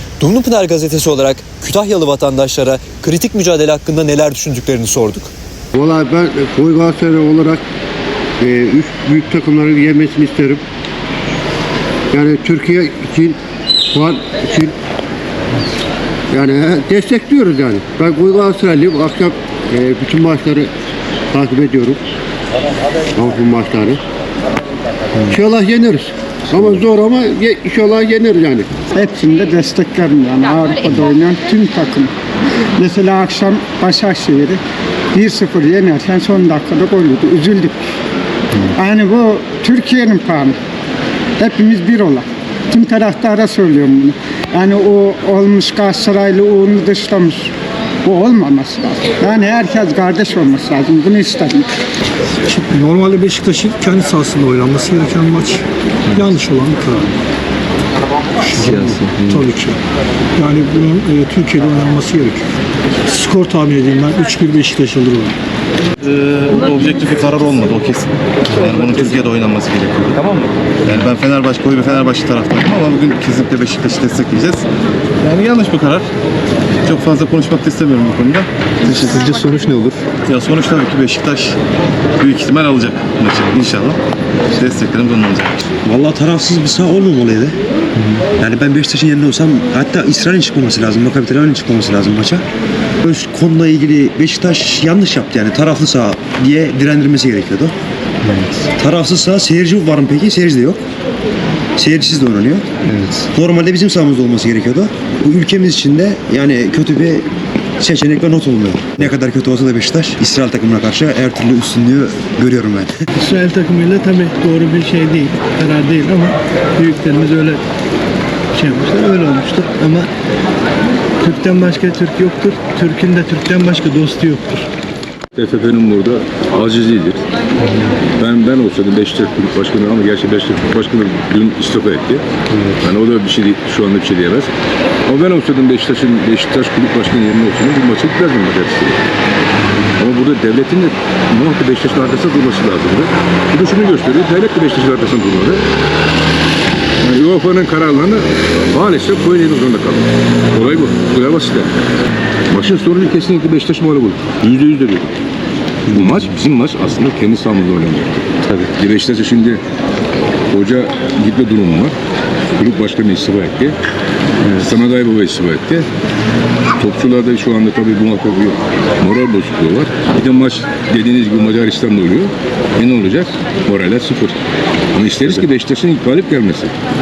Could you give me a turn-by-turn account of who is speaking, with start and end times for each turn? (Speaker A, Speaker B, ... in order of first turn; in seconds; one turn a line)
Speaker A: 0.2-5.3
Speaker B: 5.7-7.6
Speaker B: 8.4-10.6
Speaker B: 12.1-13.3
Speaker B: 13.9-14.7
Speaker B: 16.3-20.7
Speaker B: 21.3-22.0
Speaker B: 23.1-24.0
Speaker B: 25.2-28.7
Speaker C: 28.9-32.1
Speaker C: 32.8-34.6
Speaker C: 35.1-37.8
Speaker C: 38.7-40.5
Speaker C: 41.4-47.5
Speaker C: 48.0-51.7
Speaker D: 52.4-57.1
Speaker D: 58.4-59.8
Speaker A: 58.8-59.4
Speaker D: 60.4-62.5
Speaker D: 63.1-65.3
Speaker E: 66.0-74.7
Speaker E: 75.2-76.1
Speaker E: 76.8-79.5
Speaker E: 80.2-81.5
Speaker E: 82.2-84.0
Speaker E: 84.5-85.6
Speaker F: 85.8-87.6
Speaker F: 88.4-92.4
Speaker F: 93.0-97.7
Speaker F: 98.5-100.8
Speaker F: 101.8-107.2
Speaker F: 107.8-112.9
Speaker G: 113.2-117.6
Speaker G: 118.5-120.1
Speaker G: 121.2-124.6
Speaker H: 125.3-127.2
Speaker H: 128.2-132.2
Speaker H: 132.8-134.5
Speaker H: 135.1-139.0
Speaker H: 140.0-145.6
Speaker H: 147.0-151.7
Speaker H: 152.5-155.1
Speaker H: 155.8-159.6
Speaker H: 160.5-161.9
Speaker H: 162.5-163.8
Speaker H: 164.4-165.9
Speaker H: 166.8-174.4
Speaker H: 174.9-176.7